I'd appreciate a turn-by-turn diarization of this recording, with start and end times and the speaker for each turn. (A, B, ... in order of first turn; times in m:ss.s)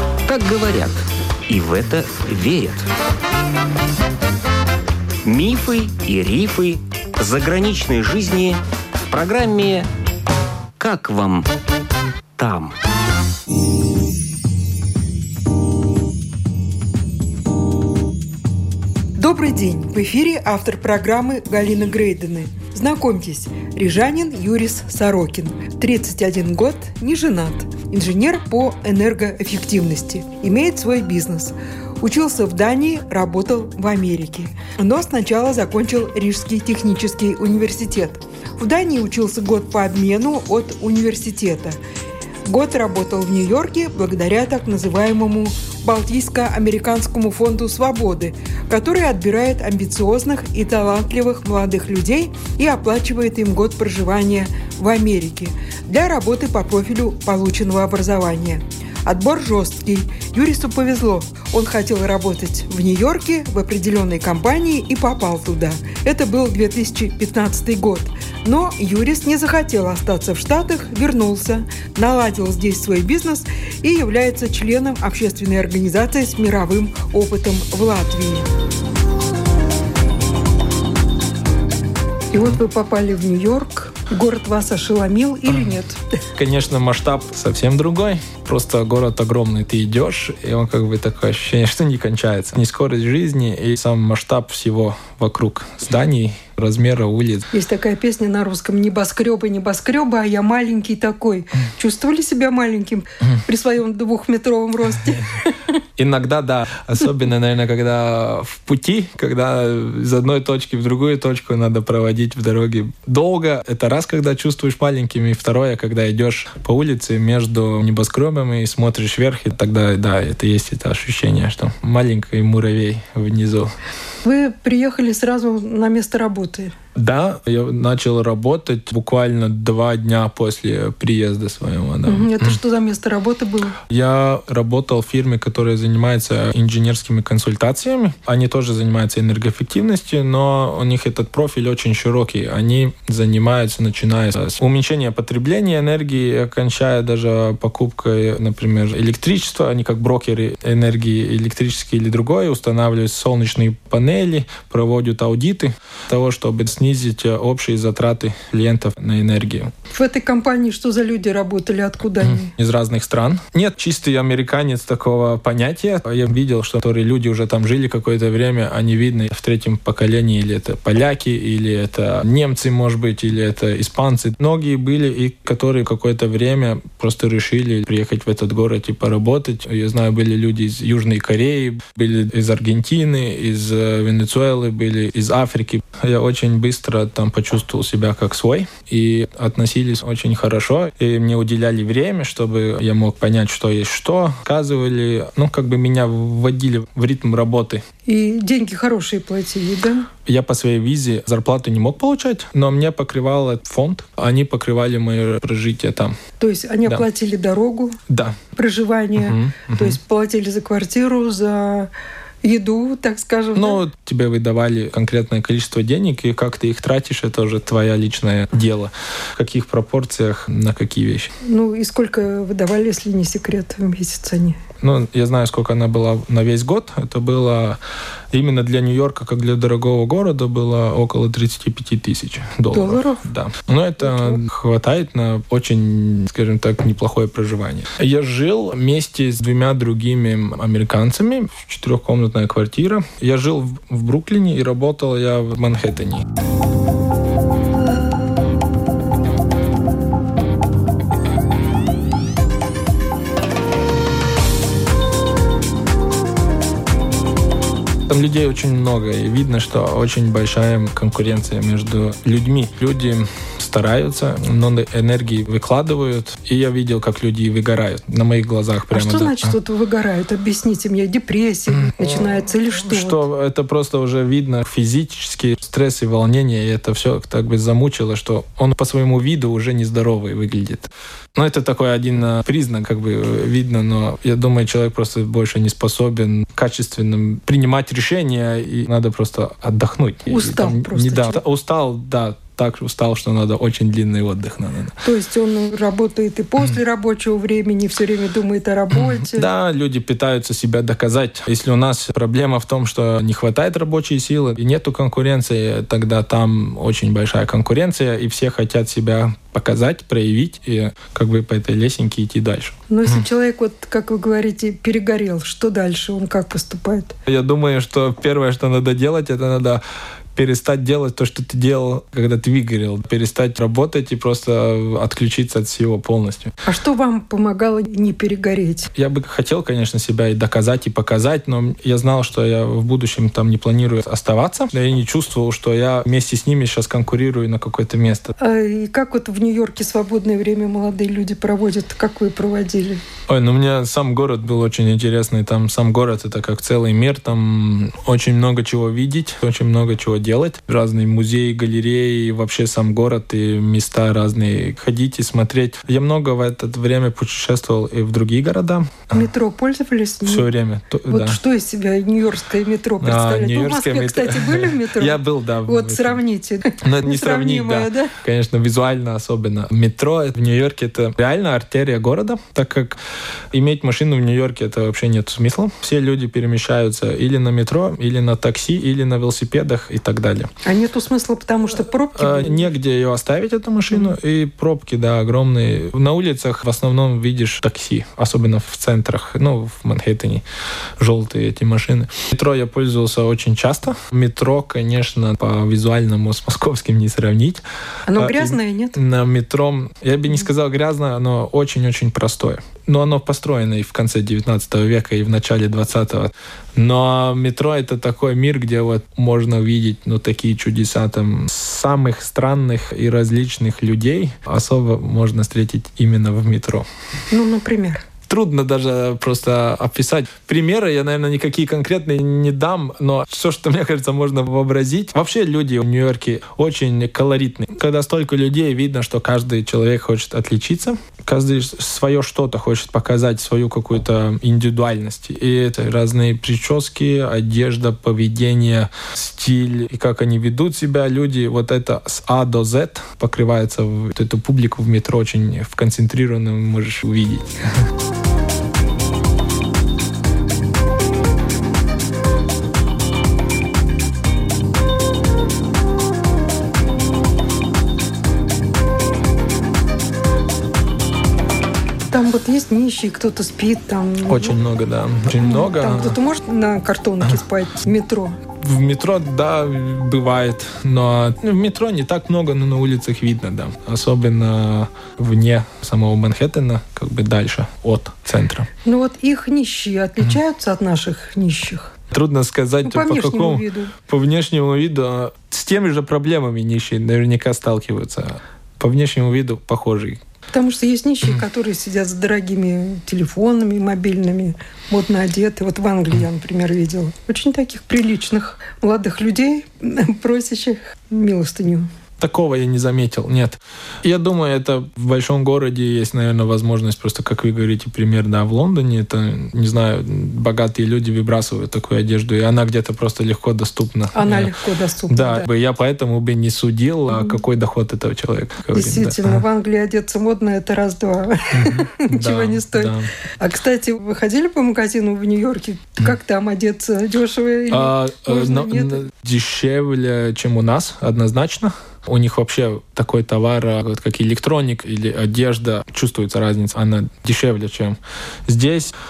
0:00.2-0:02.9 A
0:05.2-0:09.9 A
0:10.8-0:11.5 A
0:12.4-0:12.8 A
0:19.2-0:41.8 B
0:42.4-1:18.5 B
1:22.3-1:26.2 B
1:25.5-1:25.8 C
1:26.4-1:37.4 C
1:37.5-1:45.5 B
1:46.0-2:03.7 C
2:04.2-2:06.7 B
2:07.0-2:12.6 C
2:12.0-2:13.8 B
2:13.9-2:39.7 C
2:39.9-2:42.5 B
2:42.2-3:17.8 C
3:18.0-3:20.1 B
3:20.3-3:26.2 C
3:26.4-3:28.0 B
3:28.1-3:28.4 C
3:28.6-3:31.9 B
3:29.2-3:30.0 C
3:32.4-3:33.8 B
3:33.6-3:41.3 C
3:41.4-3:44.6 B
3:44.8-3:47.8 C
3:48.3-4:06.2 C
3:52.7-3:53.2 B
3:54.1-3:54.4 B
4:18.1-4:29.6 C
4:28.9-4:33.2 B
4:31.8-4:55.0 C
4:50.3-4:51.4 B
4:55.0-4:59.5 B
4:58.9-5:13.3 C
5:12.9-5:17.1 B
5:17.3-5:19.8 C
5:20.4-5:26.5 C
5:26.6-5:28.9 B
5:29.0-5:38.3 C
5:38.4-5:43.0 B
5:43.3-5:59.2 C
5:59.1-6:00.5 B
6:00.3-6:01.4 C
6:01.1-6:08.1 B
6:03.0-6:06.2 C
6:06.8-6:13.0 C
6:13.5-6:20.5 C
6:20.6-6:22.7 B
6:22.2-6:30.4 C
6:31.0-6:37.6 C
6:38.1-6:39.0 B
6:38.2-6:56.9 C
6:57.3-6:58.0 B
6:58.3-7:27.5 C
7:42.1-7:44.6 B
7:44.2-7:46.2 C
7:45.3-7:48.4 B
7:48.6-7:58.7 C
7:58.8-8:01.9 B
8:02.1-8:10.2 C
8:02.8-8:03.9 B
8:10.5-8:21.9 B
8:22.2-8:34.5 C
8:34.1-8:35.5 B
8:35.1-8:39.4 C
8:38.7-8:49.0 B
8:41.5-8:43.1 C
8:47.7-8:59.0 C